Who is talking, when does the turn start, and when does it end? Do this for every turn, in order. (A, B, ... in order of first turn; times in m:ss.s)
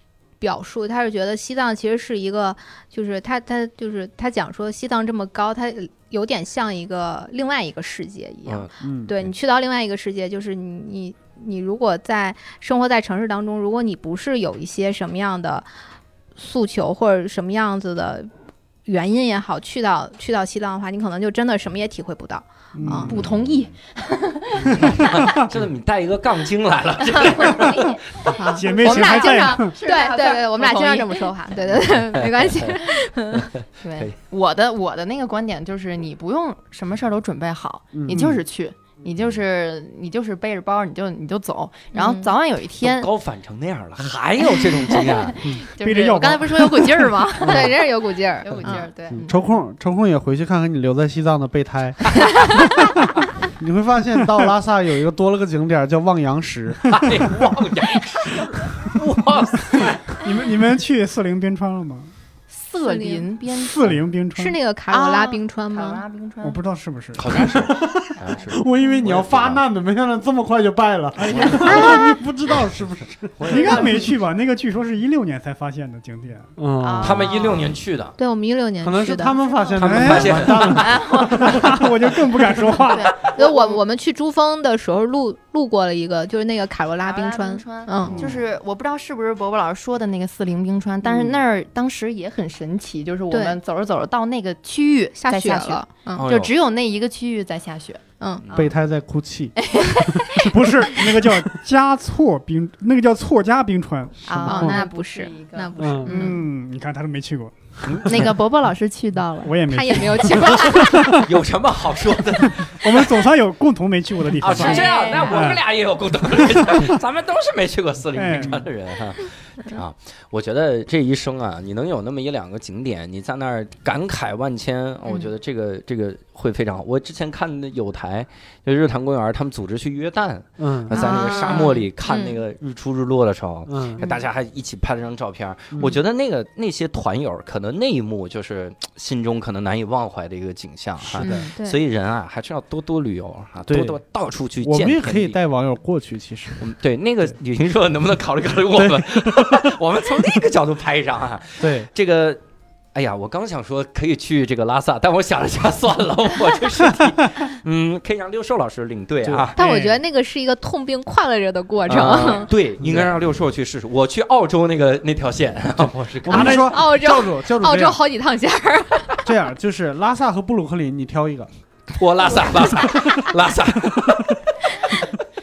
0:00.4-0:15.7 A
0:08.4-0:09.3 B
0:08.8-0:09.1 C
0:16.4-0:18.3 A
0:18.8-0:23.1 A
0:22.7-0:23.2 D
0:23.0-0:24.8 E
0:23.1-0:23.7 B
0:24.7-0:25.4 D
0:24.8-0:28.0 B
0:27.4-0:28.0 E
0:28.3-0:33.4 A
0:28.5-0:31.3 E
0:28.5-0:29.8 D
0:31.8-0:34.1 B
0:33.8-0:43.1 E
0:37.9-0:38.4 C
0:41.9-0:42.3 A
0:42.8-0:45.4 B
0:44.9-0:47.8 E
0:45.6-0:47.3 D
0:47.4-0:48.9 A
0:48.4-0:49.4 E
0:49.1-0:52.8 C
0:53.6-0:57.0 C
0:56.8-1:00.2 B
1:00.2-1:02.1 D
1:02.5-1:04.0 E
1:02.8-1:03.3 A
1:03.6-1:04.6 D
1:04.4-1:06.0 A
1:04.9-1:06.6 E
1:06.4-1:07.5 D
1:07.2-1:09.6 B
1:07.7-1:13.8 C
1:11.2-1:12.0 D
1:11.2-1:11.9 B
1:11.7-1:12.0 A
1:11.7-1:12.0 E
1:13.4-1:14.1 B
1:13.5-1:16.5 D
1:13.5-1:13.8 E
1:16.6-1:17.2 C
1:16.8-1:17.8 E
1:17.0-1:18.1 B
1:18.2-1:19.8 A
1:18.8-1:21.7 C
1:19.8-1:21.0 B
1:19.8-1:23.1 D
1:20.7-1:21.8 E
1:22.6-1:23.8 E
1:23.2-1:28.2 A
1:27.0-1:38.6 E
1:28.0-1:28.4 B
1:33.3-1:33.6 A
1:35.2-1:36.2 A
1:36.2-1:36.5 B
1:38.4-1:38.7 B
1:38.5-1:41.2 C
1:39.8-1:40.2 A
1:40.4-1:44.8 D
1:44.2-1:46.4 E
1:44.4-1:46.4 A
1:45.8-1:46.1 C
1:46.0-1:48.1 D
1:47.8-1:48.3 B
1:48.0-1:49.6 E
1:49.4-1:51.3 D
1:49.7-1:51.2 A
1:51.1-1:53.2 B
1:52.6-1:55.6 D
1:54.4-2:25.4 B
1:54.6-1:55.4 A
1:54.8-1:55.2 E
1:56.4-1:56.9 D
1:58.1-1:58.7 D
2:10.6-2:11.0 C
2:10.9-2:11.8 E
2:11.1-2:12.4 A
2:13.7-2:14.0 C
2:21.2-2:21.5 E
2:21.2-2:21.8 A
2:23.7-2:24.0 C
2:24.6-2:26.7 C
2:26.6-2:32.4 B
2:28.8-2:29.6 C
2:31.6-2:31.9 C
2:32.9-2:39.6 B
2:39.2-2:39.5 C
2:39.6-2:40.0 D
2:39.6-2:42.5 A
2:41.9-2:46.8 B
2:42.8-2:43.1 C
2:46.2-2:48.0 C
2:46.3-2:49.2 A
2:49.2-2:51.5 C
2:52.0-2:55.2 B